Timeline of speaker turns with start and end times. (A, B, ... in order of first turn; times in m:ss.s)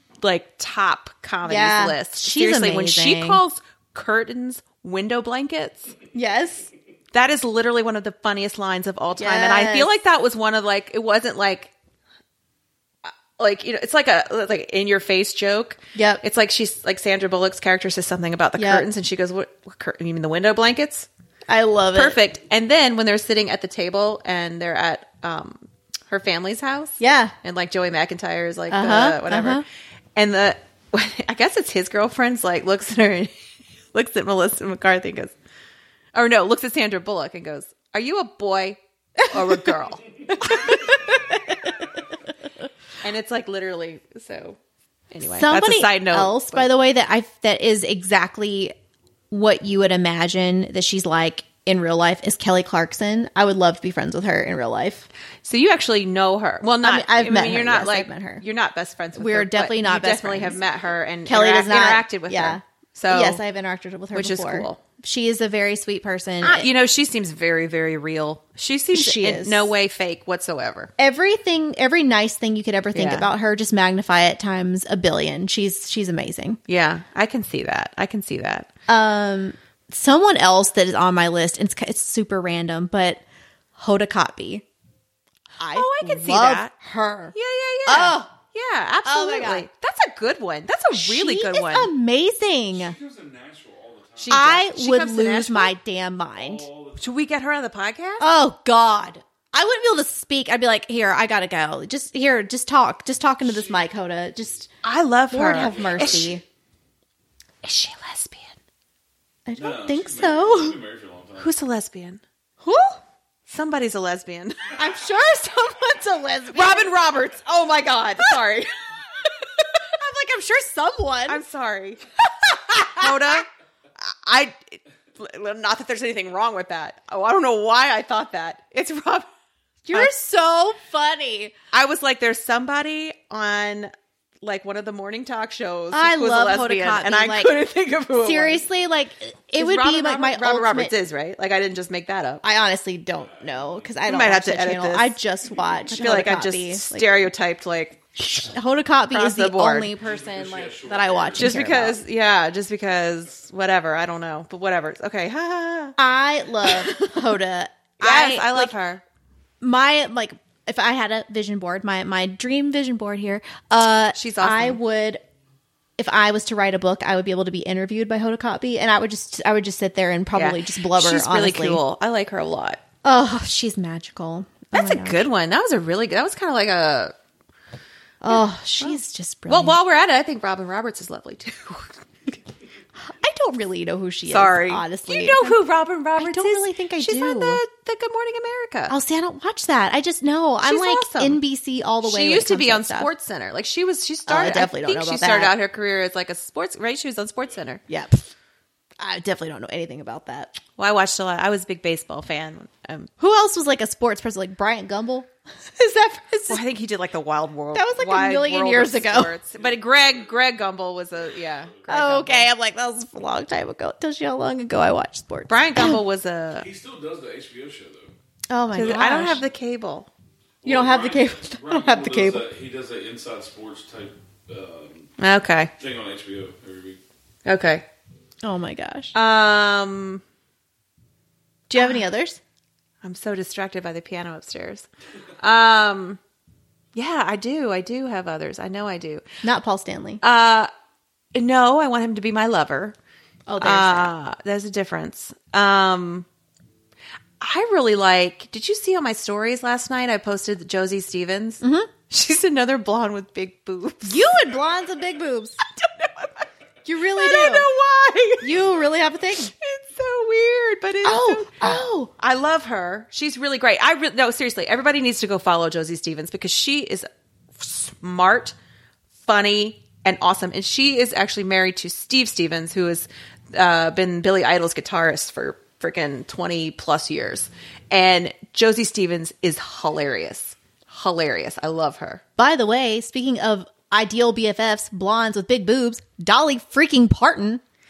0:00.2-0:05.9 A
0:01.4-0:03.4 B
0:06.1-0:06.7 B
0:07.1-0:11.7 A
0:09.2-0:09.9 B
0:13.0-0:21.1 A
0:16.0-0:16.2 B
0:18.6-0:18.9 B
0:21.5-0:22.2 B
0:21.9-0:29.6 A
0:27.0-0:27.4 B
0:28.7-0:29.6 B
0:30.2-0:33.3 A
0:33.9-0:35.3 A
0:36.1-0:40.8 A
0:39.2-0:39.6 B
0:40.4-0:41.8 B
0:43.0-0:44.6 A
0:45.1-0:46.7 A
0:45.3-0:48.7 B
0:49.3-0:55.1 B
0:55.4-1:03.4 A
0:56.8-0:58.4 B
0:59.2-1:00.6 B
1:01.3-1:06.7 B
1:04.1-1:04.8 A
1:06.4-1:10.9 A
1:08.9-1:09.7 B
1:11.0-1:16.6 B
1:12.9-1:13.3 A
1:16.7-1:18.7 A
1:18.9-1:23.2 B
1:23.8-1:24.6 B
1:25.6-1:27.3 B
1:25.6-1:26.7 A
1:27.3-1:31.9 A
1:27.9-1:28.3 B
1:29.0-1:29.7 B
1:30.9-1:33.0 B
1:32.7-1:34.5 C
1:34.2-1:35.7 A
1:34.3-1:36.6 B
1:36.4-1:37.1 C
1:37.0-1:38.2 A
1:38.2-1:44.7 B
1:43.4-1:43.8 C
1:44.8-1:46.3 A
1:45.3-1:46.4 B
1:45.7-1:46.3 C
1:47.6-1:48.6 A
1:49.5-1:50.8 B
1:49.6-1:51.5 C
1:51.4-1:52.2 A
1:52.6-1:53.0 B
1:53.5-1:54.8 A
1:54.8-1:56.9 B
1:56.5-1:58.7 A
1:59.6-2:01.4 B
2:01.3-2:02.0 A
2:02.4-2:03.4 B
2:02.7-2:03.5 A
2:04.0-2:09.3 A
2:09.9-2:11.5 B
2:11.7-2:13.9 A
2:14.4-2:18.6 A
2:15.9-2:17.5 B
2:18.2-2:20.9 B
2:19.6-2:22.4 A
2:22.4-2:27.1 B
2:23.1-2:24.0 C
2:24.1-2:25.2 A
2:25.9-2:28.0 A
2:28.2-2:32.0 B
2:29.1-2:29.9 A
2:30.0-2:32.0 C
2:31.4-2:36.0 A
2:36.0-2:38.7 B
2:36.6-2:37.0 A
2:38.0-2:39.0 A
2:39.6-2:45.2 B
2:44.2-2:44.8 A
2:46.0-2:51.8 B
2:50.4-2:52.8 A
2:53.0-2:55.2 B
2:54.7-2:57.1 A
2:58.2-2:59.8 B
2:58.3-2:59.0 A
2:59.5-3:02.4 A
3:03.0-3:05.6 B
3:04.3-3:08.9 A
3:06.2-3:07.6 B
3:08.9-3:13.1 B
3:10.6-3:11.4 A
3:12.0-3:17.8 A
3:14.3-3:15.5 B
3:17.9-3:18.2 B
3:19.0-3:20.6 B
3:20.8-3:23.1 A
3:23.2-3:26.6 B
3:26.5-3:32.5 A
3:27.7-3:29.3 B
3:29.5-3:30.5 C
3:31.1-3:31.9 C
3:31.9-3:36.0 B
3:35.5-3:36.7 A
3:36.6-3:38.1 C
3:38.5-3:39.4 B
3:38.7-3:40.1 A
3:38.8-3:39.4 C
3:40.6-3:45.1 C
3:40.6-3:42.4 B
3:45.2-3:45.7 A
3:45.8-3:47.0 C
3:47.5-3:47.8 A
3:48.4-3:49.1 B
3:49.1-3:50.2 A
3:51.7-3:52.4 B
3:51.8-3:52.0 A
3:53.0-3:54.9 A
3:55.4-3:56.2 A
3:57.0-3:59.2 A
3:59.4-4:00.2 B
4:00.2-4:00.7 A
4:01.3-4:03.0 A
4:03.5-4:04.1 B
4:03.6-4:06.3 A
4:07.4-4:14.3 A
4:11.6-4:11.9 B
4:14.0-4:15.6 B
4:15.8-4:16.5 A
4:16.8-4:17.7 B
4:17.2-4:18.6 A
4:18.4-4:19.5 B
4:19.5-4:21.7 A
4:21.0-4:22.1 B
4:22.2-4:28.6 A
4:29.2-4:42.2 A
4:42.4-4:47.6 B